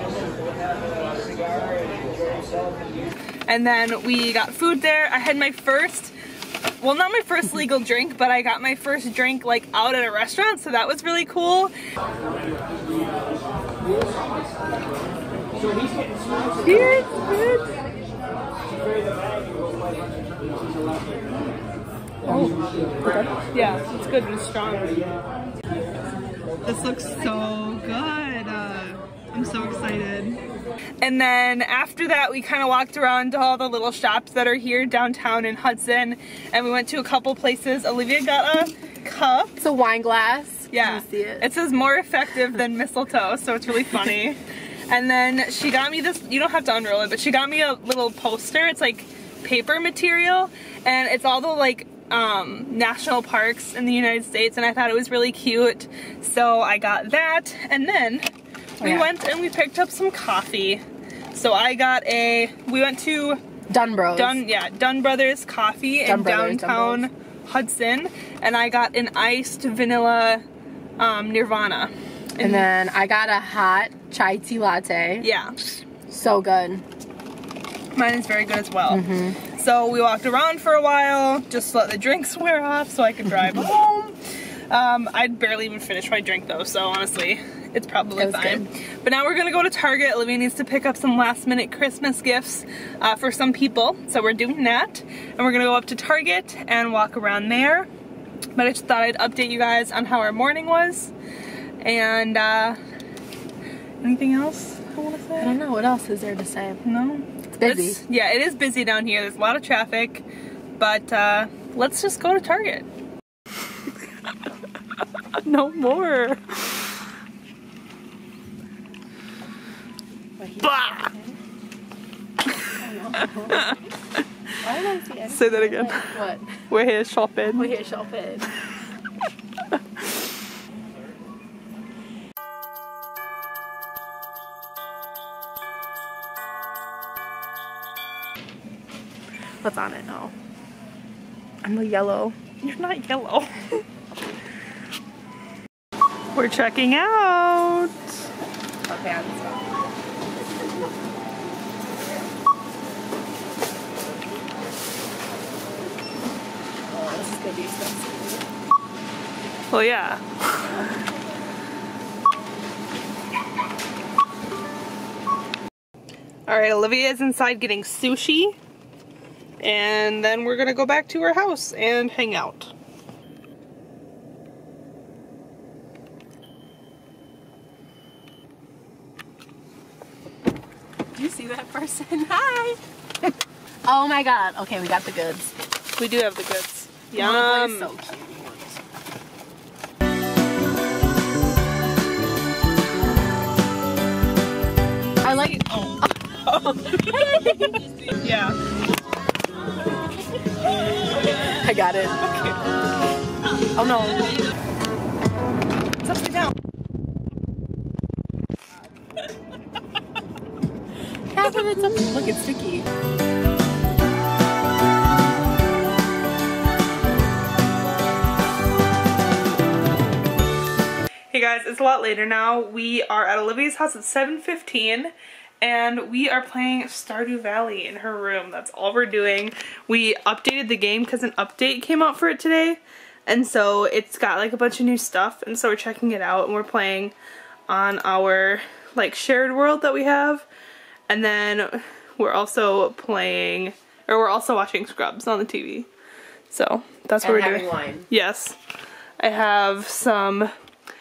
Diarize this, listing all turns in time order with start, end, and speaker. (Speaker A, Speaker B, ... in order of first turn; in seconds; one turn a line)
Speaker A: 3.5-6.1
Speaker A: 6.8-11.7
Speaker A: 16.6-17.7
Speaker B: 22.2-23.4
Speaker A: 23.5-25.0
Speaker A: 26.6-30.4
Speaker A: 31.0-39.6
Speaker B: 39.6-41.5
Speaker A: 40.7-63.4
Speaker B: 63.7-64.4
Speaker A: 64.1-70.4
Speaker B: 66.0-67.1
Speaker A: 71.0-72.7
Speaker B: 72.4-75.3
Speaker A: 75.2-75.5
Speaker B: 76.1-76.8
Speaker A: 77.9-84.2
Speaker B: 78.9-79.4
Speaker A: 84.7-97.9
Speaker B: 88.2-88.7
Speaker A: 98.5-101.1
Speaker A: 101.8-102.8
Speaker A: 104.0-105.6
Speaker B: 105.4-106.8
Speaker A: 106.8-110.2
Speaker B: 107.5-108.0
Speaker A: 110.8-112.8
Speaker A: 115.4-116.6
Speaker B: 120.4-121.4
Speaker A: 120.6-121.1
Speaker B: 122.8-123.8
Speaker A: 123.5-123.7
Speaker B: 124.6-126.6
Speaker A: 125.3-126.2
Speaker A: 126.7-127.7
Speaker B: 127.5-128.5
Speaker A: 139.6-140.3
Speaker A: 141.6-143.6
Speaker A: 146.3-148.1
Speaker B: 148.8-149.7
Speaker B: 156.9-158.5
Speaker A: 159.7-160.8
Speaker B: 160.7-161.0
Speaker A: 166.5-168.6
Speaker A: 169.6-172.7
Speaker B: 181.1-182.8
Speaker B: 183.8-185.5
Speaker A: 186.0-187.9
Speaker B: 187.1-188.8
Speaker B: 195.2-197.7
Speaker A: 195.2-197.5
Speaker A: 198.1-198.6
Speaker A: 201.2-201.6
Speaker B: 201.4-202.5
Speaker A: 202.2-202.6
Speaker B: 203.7-204.4
Speaker A: 206.0-206.5
Speaker B: 211.3-212.9
Speaker A: 221.3-237.1
Speaker A: 237.7-240.4
Speaker A: 241.1-245.9
Speaker A: 246.5-248.6
Speaker B: 247.2-248.1
Speaker A: 249.2-250.5